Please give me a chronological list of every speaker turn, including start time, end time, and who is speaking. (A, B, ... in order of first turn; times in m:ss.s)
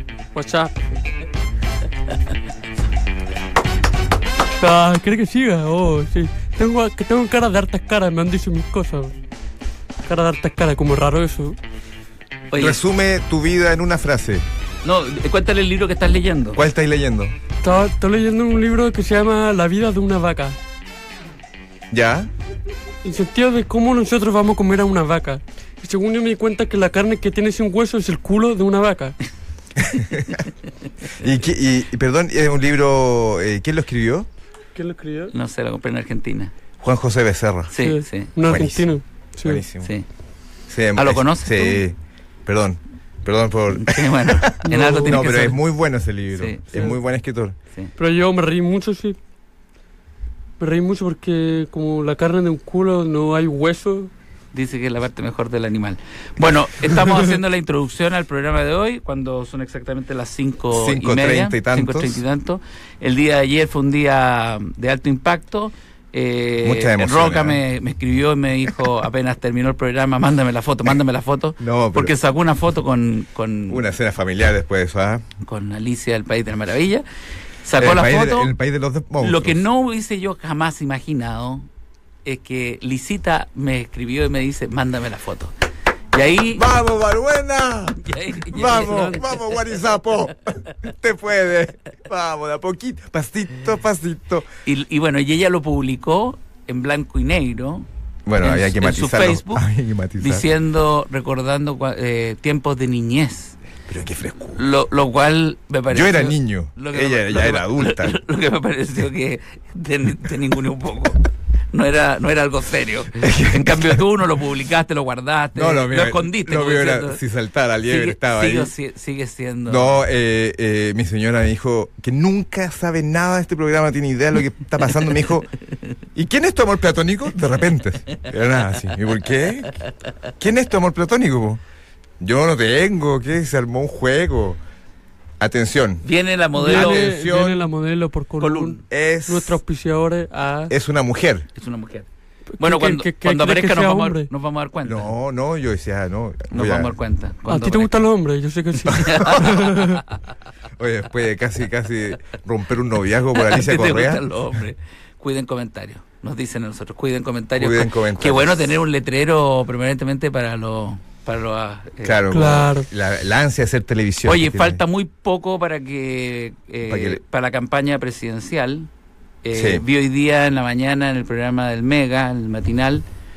0:00.3-0:00.7 A
0:04.6-0:09.1 A
0:10.0-0:11.6 A
0:12.5-0:12.8 B
0:12.6-0:14.4 C
0:14.8-0:16.6 B
0:16.6-0:17.3 C
0:17.6-0:20.6 A
0:21.9-0:22.3 C
0:23.0-0:29.2 A
0:29.8-0:30.4 C
0:31.2-0:34.3 C
0:34.8-0:35.3 A
0:35.3-0:36.5 B
0:36.8-0:37.8 C
0:37.7-0:38.3 B
0:37.8-0:39.6 A
0:38.5-0:38.9 C
0:39.4-0:39.9 C
0:40.7-0:47.6 C
0:40.9-0:41.8 B
0:43.7-0:45.6 B
0:44.6-0:45.2 A
0:46.3-0:46.8 B
0:48.0-0:49.2 A
0:50.6-0:54.1 A
0:54.5-1:13.9 B
1:00.7-1:02.2 C
1:06.6-1:07.6 C
1:11.6-1:12.1 C
1:13.7-1:15.2 C
1:15.4-1:17.0 B
1:17.6-1:18.5 B
1:17.8-1:19.6 C
1:19.2-1:21.7 B
1:22.2-1:25.5 B
1:26.1-1:26.6 B
1:26.5-1:34.5 C
1:28.0-1:29.4 B
1:34.6-1:37.9 B
1:38.3-1:40.5 C
1:38.4-1:39.6 B
1:40.2-1:43.6 B
1:43.9-1:44.6 C
1:44.6-1:57.2 B
1:45.9-1:48.2 C
1:53.2-1:54.0 C
1:55.6-1:58.7 C
1:57.9-2:00.0 B
1:59.7-2:05.5 C
2:06.2-2:09.8 C
2:10.4-2:11.6 C
2:12.2-2:14.6 C
2:15.4-2:16.0 C
2:16.0-2:17.1 B
2:16.6-2:20.7 A
2:16.6-2:17.7 C
2:18.4-2:18.8 B
2:18.9-2:19.6 C
2:20.7-2:21.5 C
2:21.6-2:22.1 B
2:22.6-2:24.3 A
2:22.6-2:25.1 B
2:24.8-2:26.9 C
2:26.5-2:27.9 B
2:27.5-2:30.0 A
2:28.9-2:30.0 B
2:28.9-2:29.8 C
2:30.8-2:34.3 C
2:33.3-2:42.2 B
2:37.6-2:38.8 C
2:42.0-2:44.8 C
2:42.3-2:42.9 A
2:44.2-2:48.9 B
2:46.9-2:47.2 C
2:49.4-2:53.0 B
2:49.6-2:49.8 C